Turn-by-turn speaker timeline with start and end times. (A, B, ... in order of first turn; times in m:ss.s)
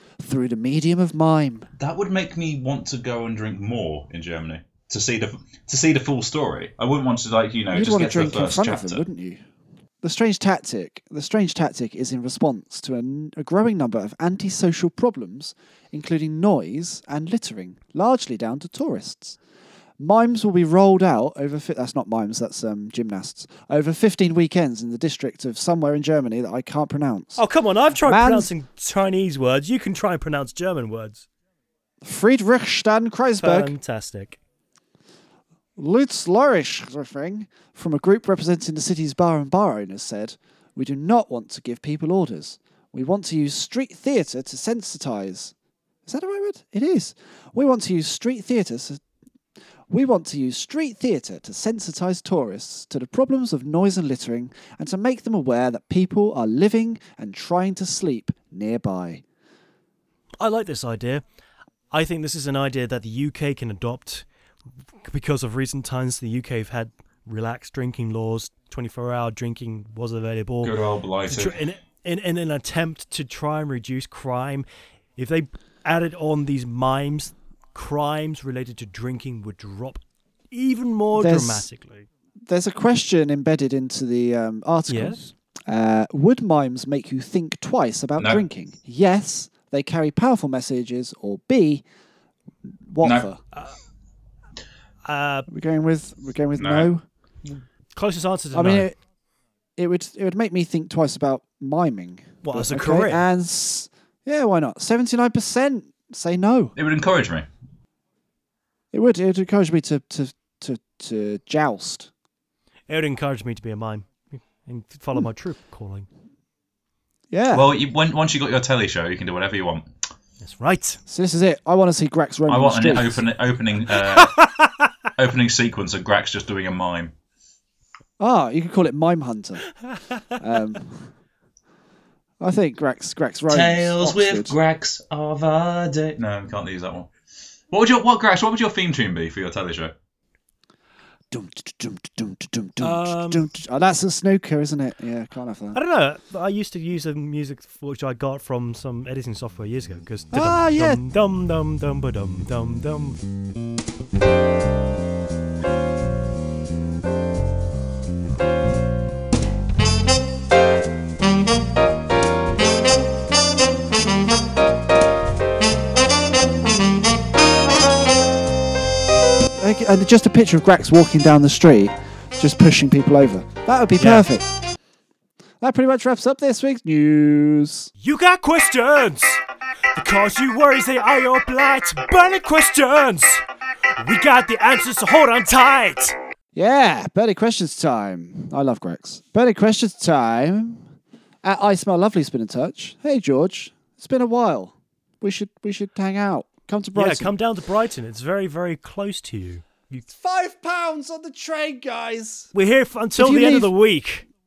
0:00.2-0:01.7 A
0:01.8-0:09.0 B
0:07.7-0:09.4 A
0:10.0-0:19.4 A
0:20.0-0:27.4 A
0:27.4-0:31.2 C
0:28.0-0:28.5 A
0:32.0-0:33.7 A
0:33.4-0:34.4 C
0:35.8-0:45.5 A
0:46.1-0:49.0 A
0:49.9-0:59.2 A
1:00.4-1:01.2 C
1:01.9-1:04.2 C
1:05.1-1:10.7 C
1:10.6-1:11.6 B
1:11.3-1:14.6 C
1:15.2-1:20.0 C
1:20.5-1:22.0 C
1:21.2-1:21.7 A
1:22.5-1:31.8 A
1:24.9-1:25.2 C
1:28.2-1:28.4 B
1:32.9-1:33.4 A
1:33.0-1:33.3 B
1:35.0-1:35.5 C
1:35.5-1:37.0 A
1:36.6-1:36.9 B
1:37.5-1:38.9 C
1:38.5-1:38.9 A
1:39.8-1:46.7 A
1:42.4-1:43.2 C
1:46.8-1:47.5 B
1:48.9-1:52.1 A
1:52.9-1:54.1 C
1:54.6-1:56.1 C
1:57.3-1:57.6 A
1:57.5-1:59.9 B
2:00.4-2:01.0 C
2:01.1-2:03.2 A
2:02.5-2:04.3 B
2:04.0-2:04.6 C
2:05.2-2:07.1 B
2:08.2-2:09.6 A
2:10.4-2:10.9 A
2:12.4-2:14.5 A
2:13.5-2:17.1 B
2:17.7-2:19.9 B
2:21.3-2:25.8 A
2:22.8-2:23.4 C
2:25.7-2:33.2 C
2:30.3-2:31.0 A
2:49.6-2:54.5 A
2:54.0-2:54.2 C
2:55.6-2:57.9 A
2:58.0-2:59.4 C
3:00.0-3:03.4 C
3:04.0-3:06.1 C
3:06.6-3:10.8 A
3:11.4-3:17.3 A
3:17.0-3:20.0 C
3:20.1-3:22.5 A
3:22.5-3:24.2 C
3:23.2-3:23.7 A